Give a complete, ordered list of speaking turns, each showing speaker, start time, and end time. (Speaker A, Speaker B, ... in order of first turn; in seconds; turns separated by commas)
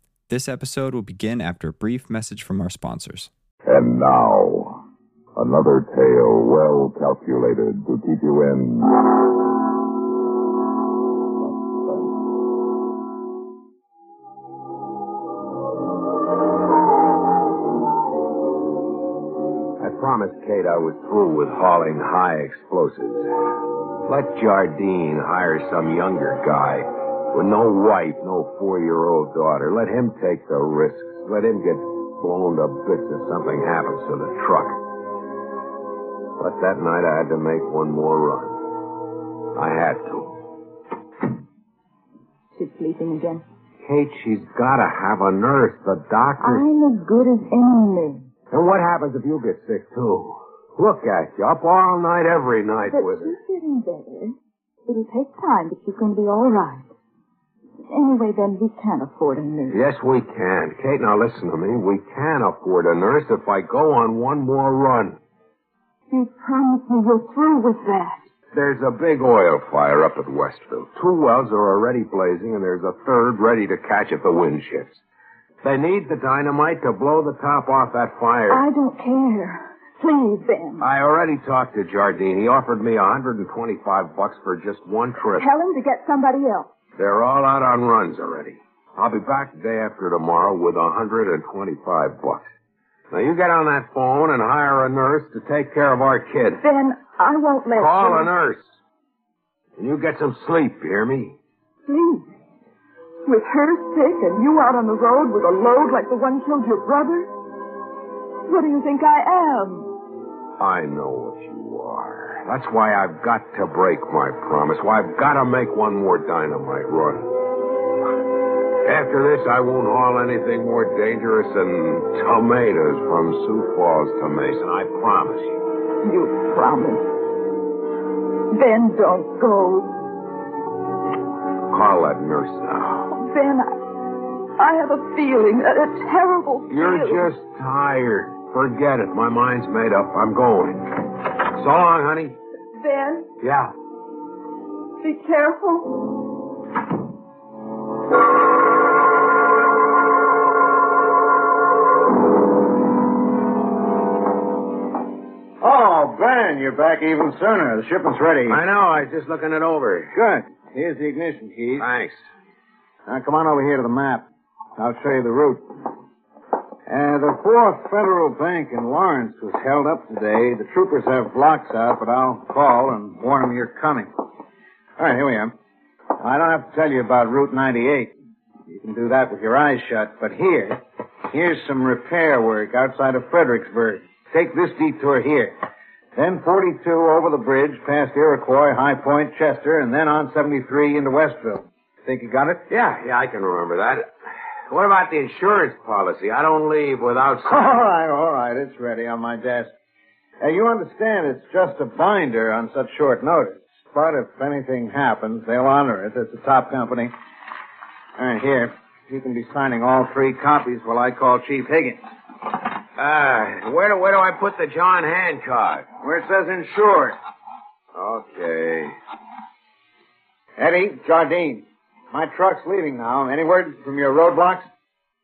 Speaker A: 0.3-3.3, Speaker B: 3.7-4.8, Speaker B: 5.3-8.9, Speaker C: 19.8-23.3, Speaker C: 24.1-34.8, Speaker C: 36.4-38.6, Speaker C: 39.5-40.4, Speaker D: 42.6-43.4, Speaker C: 43.8-46.7, Speaker D: 46.4-48.3, Speaker C: 48.5-53.3, Speaker D: 52.9-54.4, Speaker D: 54.9-56.9, Speaker D: 57.9-59.8, Speaker C: 59.7-65.2, Speaker D: 66.1-68.2, Speaker C: 68.5-75.0, Speaker C: 75.6-78.6, Speaker D: 78.5-80.9, Speaker C: 80.8-85.5, Speaker D: 85.3-86.7, Speaker C: 87.0-92.4, Speaker C: 93.1-96.6, Speaker D: 96.6-98.3, Speaker C: 97.8-98.6, Speaker C: 99.8-101.4, Speaker D: 101.9-102.3, Speaker D: 103.2-107.3, Speaker D: 108.5-109.9, Speaker C: 110.6-117.3, Speaker C: 118.8-125.6, Speaker D: 126.0-127.0, Speaker D: 128.5-129.9, Speaker C: 131.7-133.1, Speaker D: 133.1-133.7, Speaker D: 134.6-137.3, Speaker C: 136.7-142.4, Speaker D: 142.8-143.3, Speaker C: 143.4-143.7, Speaker D: 145.0-146.2, Speaker E: 155.6-158.6, Speaker C: 158.5-160.1, Speaker E: 160.1-161.9, Speaker C: 161.8-162.2, Speaker E: 163.1-164.2, Speaker E: 164.8-165.7, Speaker E: 166.9-174.1, Speaker E: 175.0-175.5, Speaker E: 176.2-178.1, Speaker E: 178.7-185.5, Speaker E: 186.2-192.6, Speaker C: 192.7-194.1, Speaker C: 194.7-197.8, Speaker E: 197.5-199.7, Speaker E: 200.4-207.1, Speaker E: 208.2-212.0, Speaker C: 213.0-215.9, Speaker E: 216.0-217.2, Speaker C: 218.0-218.9, Speaker E: 220.6-224.7